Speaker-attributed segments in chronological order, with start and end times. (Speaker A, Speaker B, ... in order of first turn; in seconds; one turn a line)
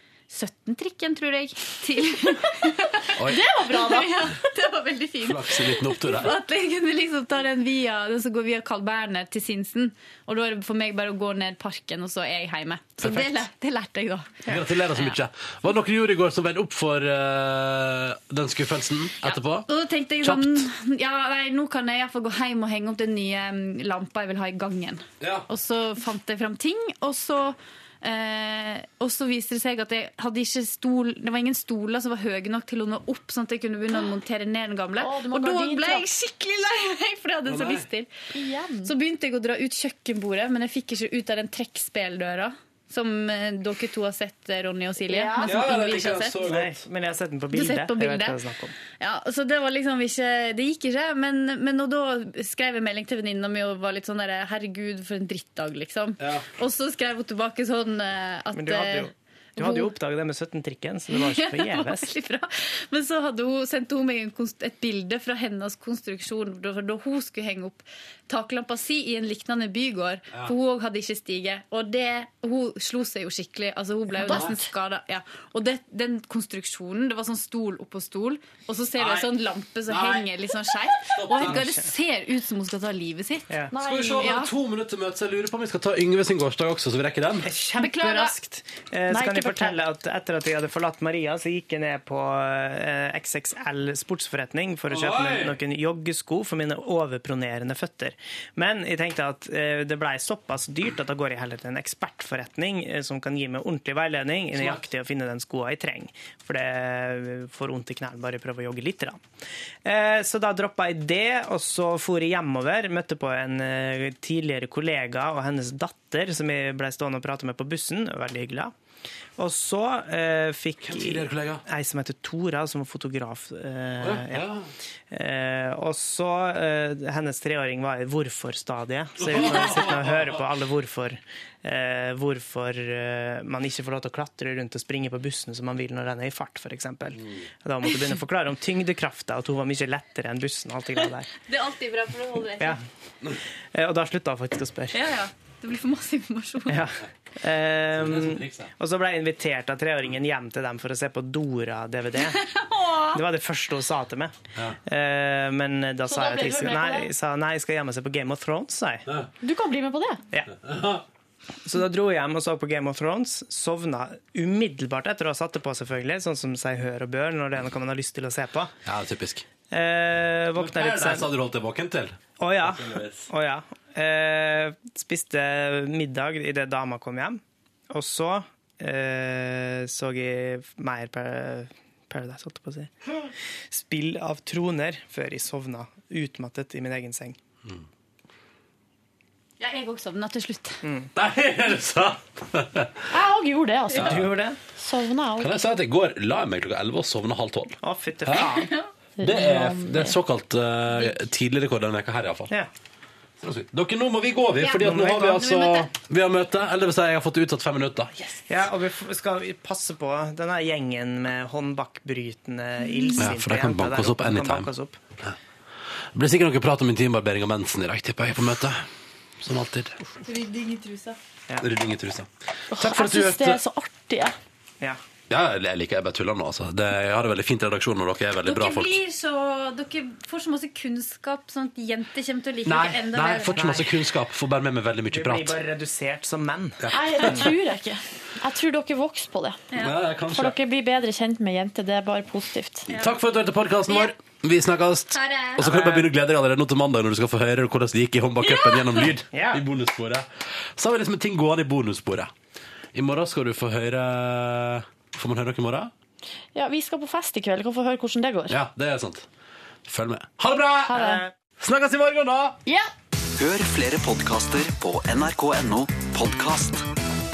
Speaker A: 0.3-14.4
Speaker B: 3.2-3.4
Speaker C: 3.3-4.1
Speaker B: 5.2-6.4
Speaker B: 13.0-13.5
Speaker B: 14.5-19.7
Speaker A: 19.2-38.1
Speaker B: 20.2-20.7
Speaker B: 25.2-25.5
Speaker C: 35.0-36.1
Speaker B: 37.5-37.9
Speaker C: 38.3-38.9
Speaker A: 38.8-46.4
Speaker C: 45.1-45.6
Speaker B: 45.5-46.8
Speaker D: 46.5-48.7
Speaker A: 47.5-48.4
Speaker A: 49.0-60.0
Speaker B: 56.2-56.5
Speaker D: 58.5-62.1
Speaker A: 61.1-83.5
Speaker C: 74.2-74.7
Speaker B: 74.3-74.5
Speaker B: 79.0-79.3
Speaker B: 79.9-80.3
Speaker B: 81.1-81.7
Speaker D: 81.4-81.9
Speaker C: 83.7-84.4
Speaker B: 83.8-87.5
Speaker A: 84.2-84.5
Speaker D: 87.4-109.2
Speaker A: 87.8-88.4
Speaker C: 89.1-89.8
Speaker B: 94.9-95.6
Speaker B: 104.5-104.9
Speaker D: 109.8-118.7
Speaker D: 119.4-124.5
Speaker B: 120.8-121.6
Speaker B: 124.0-124.7
Speaker D: 125.1-141.3
Speaker B: 129.2-130.5
Speaker A: 141.5-142.8
Speaker D: 143.7-145.0
Speaker A: 144.9-146.8
Speaker D: 146.7-152.5
Speaker B: 147.9-148.7
Speaker A: 152.4-153.2
Speaker D: 153.1-159.1
Speaker C: 156.1-157.1
Speaker C: 159.4-160.2
Speaker B: 160.6-161.0
Speaker D: 161.7-168.7
Speaker B: 168.8-169.5
Speaker D: 169.7-171.3
Speaker B: 170.6-173.3
Speaker D: 172.4-187.4
Speaker A: 189.6-190.8
Speaker D: 190.8-191.1
Speaker B: 191.2-192.9
Speaker C: 193.1-195.6
Speaker B: 193.9-194.3
Speaker D: 193.9-194.6
Speaker B: 195.4-198.6
Speaker D: 197.8-198.7
Speaker C: 199.2-200.2
Speaker B: 199.2-202.5
Speaker B: 203.4-208.1
Speaker A: 204.6-205.9
Speaker D: 204.8-205.5
Speaker D: 208.5-215.0
Speaker B: 213.2-214.7
Speaker B: 216.1-218.8
Speaker B: 219.4-220.0
Speaker A: 220.2-221.2
Speaker B: 221.6-223.6
Speaker C: 222.7-224.4
Speaker B: 225.3-229.0
Speaker A: 228.4-233.7
Speaker B: 232.7-235.6
Speaker D: 233.5-233.9
Speaker D: 235.1-237.5
Speaker B: 236.8-237.5
Speaker C: 236.9-239.6
Speaker B: 239.8-240.6
Speaker C: 240.3-242.9
Speaker B: 242.9-252.3
Speaker A: 243.9-244.1
Speaker A: 245.1-245.6
Speaker D: 245.6-246.1
Speaker A: 248.4-249.2
Speaker D: 249.3-249.6
Speaker B: 252.9-255.9
Speaker C: 256.6-258.6
Speaker B: 258.5-259.3
Speaker B: 259.9-261.0
Speaker C: 260.9-261.2
Speaker D: 260.9-261.3
Speaker B: 261.6-262.6
Speaker E: 263.4-266.8